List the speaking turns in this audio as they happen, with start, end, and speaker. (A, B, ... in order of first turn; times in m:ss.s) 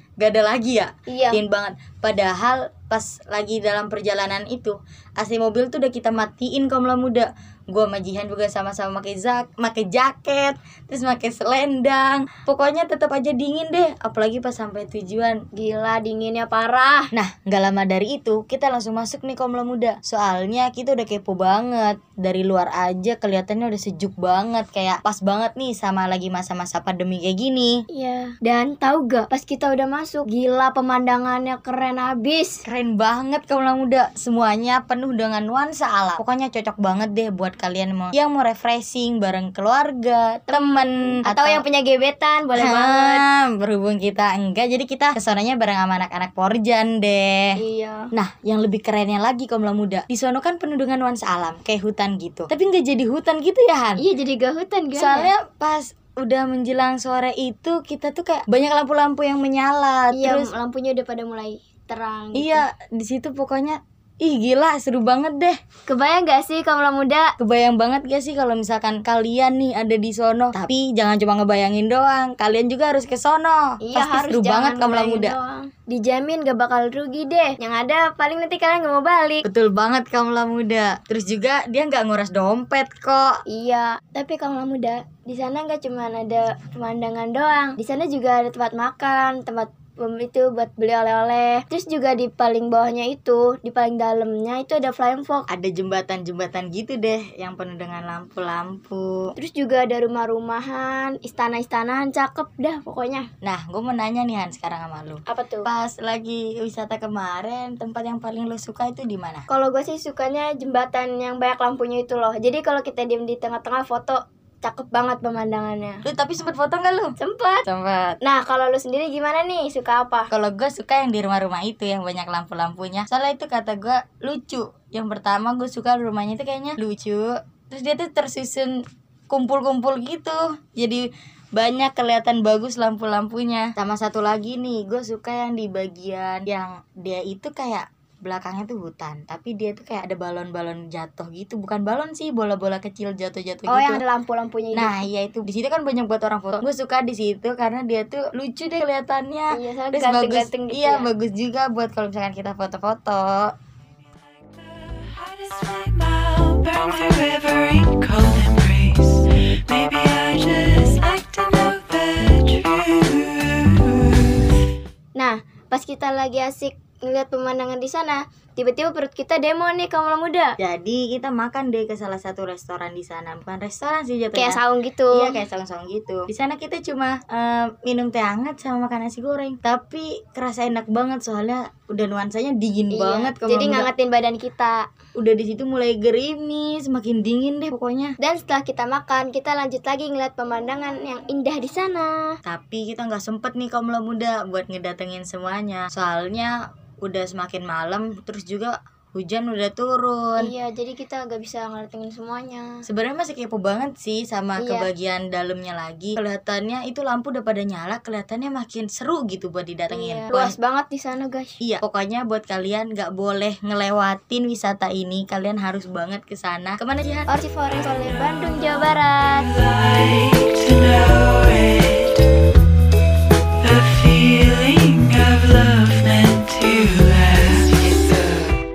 0:00.2-0:15.4 A
0:01.1-0:01.4 B
0:15.5-0:17.1 B
0:17.1-0:27.8 A
0:27.9-0:32.6 B
0:32.6-0:41.6 A
0:40.5-0:43.2 B
0:42.6-0:47.6 A
0:47.6-0:48.1 B
0:48.1-0:54.0 A
0:54.0-0:55.3 B
0:54.9-1:00.5 A
1:00.1-1:02.6 B
1:02.3-1:05.6 A
1:05.8-1:07.3 B
1:07.4-1:15.4 A
1:13.8-1:19.4 B
1:19.4-1:23.4 A
1:23.5-1:35.5 B
1:35.5-1:39.3 A
1:39.4-1:43.3 B
1:43.4-1:49.4 A
1:45.2-1:45.7 B
1:49.5-1:56.0 B
1:56.0-1:57.1 A
1:57.2-1:57.7 B
1:57.7-1:58.2 A
1:58.2-2:00.3 B
2:00.3-2:08.8 A
2:09.3-2:24.0 A
2:23.7-2:25.0 B
2:24.7-2:33.5 A
2:29.5-2:31.1 B
2:34.1-2:44.4 C
2:45.2-2:50.6 B
2:50.6-2:54.6 A
2:54.3-2:55.4 B
2:55.1-3:03.9 A
3:02.9-3:04.9 B
3:05.1-3:08.2 A
3:08.2-3:12.4 B
3:12.4-3:20.5 A
3:20.4-3:22.8 B
3:22.8-3:30.5 A
3:24.6-3:24.9 B
3:29.9-3:31.6 B
3:31.6-3:37.3 A
3:37.3-3:39.5 B
3:39.5-3:42.2 C
3:43.6-3:48.5 C